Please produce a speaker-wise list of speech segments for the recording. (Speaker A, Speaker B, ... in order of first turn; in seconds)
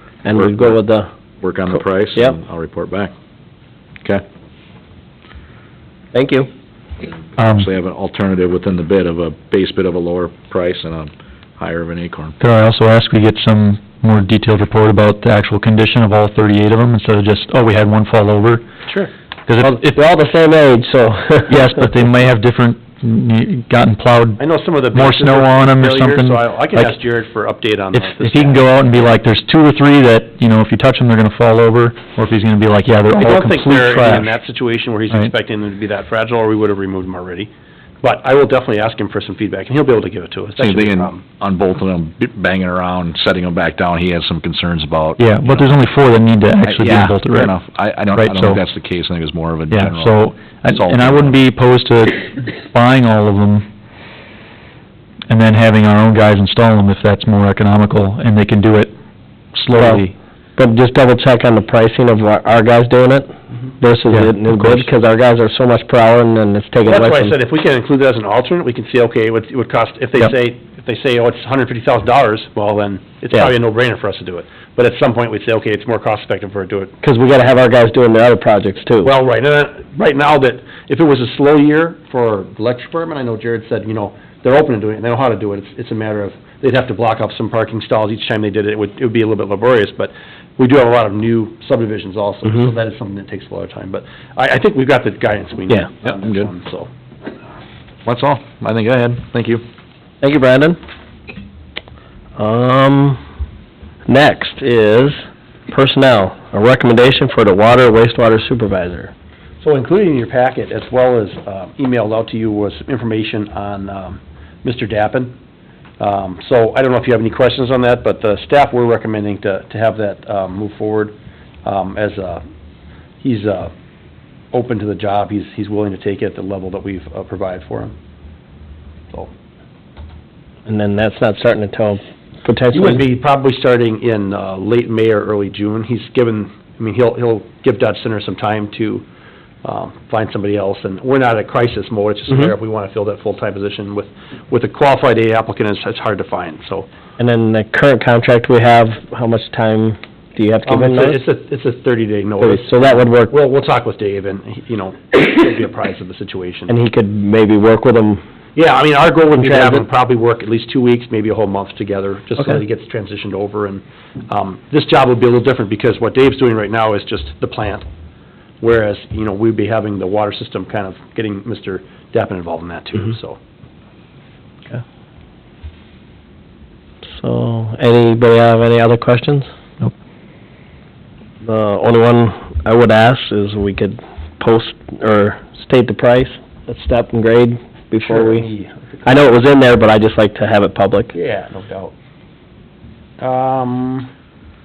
Speaker A: 0.2-1.1, 6.1-6.5, 19.6-21.8, 59.8-60.0, 60.6-67.3, 77.0-79.1, 100.2-100.8, 102.4-103.2, 104.1-109.1, 130.7-133.0, 147.2-151.2, 152.4-153.3, 156.7-158.2, 159.4-159.9, 177.2-179.5, 181.4-188.5, 189.1-191.1
Speaker B: 0.3-0.8, 1.4-3.1, 7.5-12.4, 40.6-45.8, 46.7-51.4, 96.0-96.5, 98.0-99.6
Speaker C: 7.4-7.7, 12.4-18.6, 19.5-19.9, 21.5-26.9, 28.0-34.3, 45.2-47.5, 48.1-48.6, 49.7-53.7, 55.3-58.9, 59.6-60.1, 64.1-64.8
Speaker D: 24.4-28.8, 32.9-37.5, 38.0-41.2, 66.9-77.0, 79.0-96.9, 109.6-115.3, 116.0-122.4, 123.2-123.7, 124.5-127.9, 132.7-139.1, 139.6-146.9, 150.7-156.7, 158.6-167.9, 168.6-173.4, 188.0-189.3, 191.1-191.9, 193.2-194.1